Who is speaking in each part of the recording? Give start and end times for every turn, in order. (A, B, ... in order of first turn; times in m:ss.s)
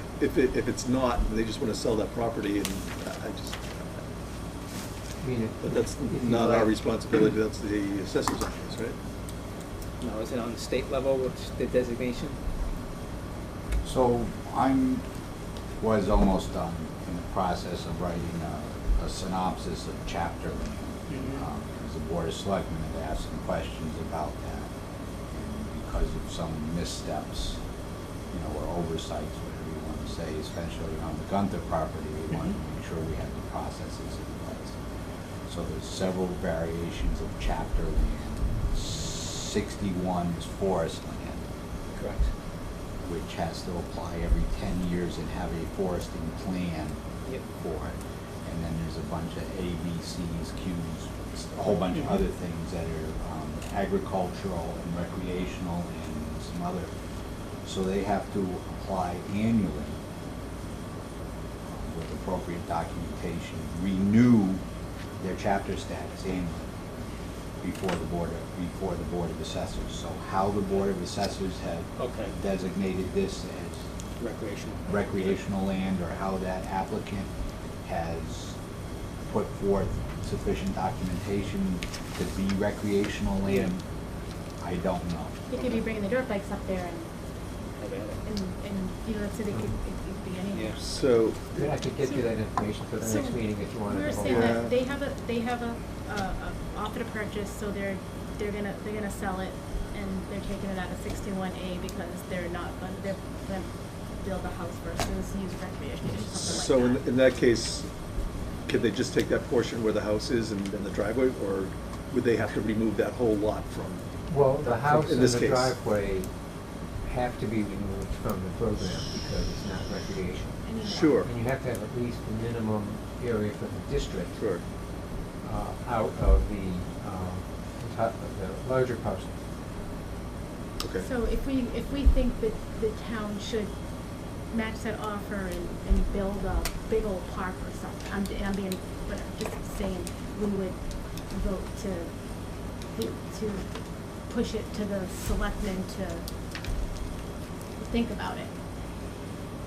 0:00.2-0:04.0 A
0:05.2-0:06.8 B
0:05.6-0:09.0 A
0:10.0-0:12.4 C
0:13.8-0:15.0 D
0:15.8-0:24.7 D
0:25.3-0:27.6 D
0:28.3-0:34.8 D
0:35.5-0:41.4 D
0:41.9-0:42.3 C
0:43.0-0:56.9 D
0:57.6-1:00.0 D
1:01.6-1:04.6 D
1:05.2-1:06.6 D
1:07.6-1:13.9 D
1:12.0-1:12.4 C
1:14.2-1:15.4 C
1:14.8-1:17.3 D
1:17.8-1:18.6 D
1:19.3-1:23.8 D
1:23.5-1:23.7 C
1:24.6-1:25.4 D
1:25.5-1:27.1 E
1:27.7-1:28.2 C
1:28.2-1:31.1 E
1:29.5-1:29.8 B
1:30.5-1:30.8 C
1:30.9-1:31.7 A
1:31.5-1:34.6 B
1:32.0-1:32.3 E
1:33.0-1:47.0 E
1:34.3-1:34.7 A
1:46.4-1:47.9 A
1:48.7-1:54.0 A
1:54.3-1:56.3 B
1:54.6-1:55.8 A
1:57.0-2:04.5 B
2:00.6-2:01.2 E
2:00.8-2:01.3 A
2:04.3-2:04.6 A
2:05.4-2:09.3 B
2:10.8-2:11.1 A
2:11.0-2:13.7 E
2:14.4-2:23.7 E
2:24.2-2:26.2 E
2:27.8-2:28.5 E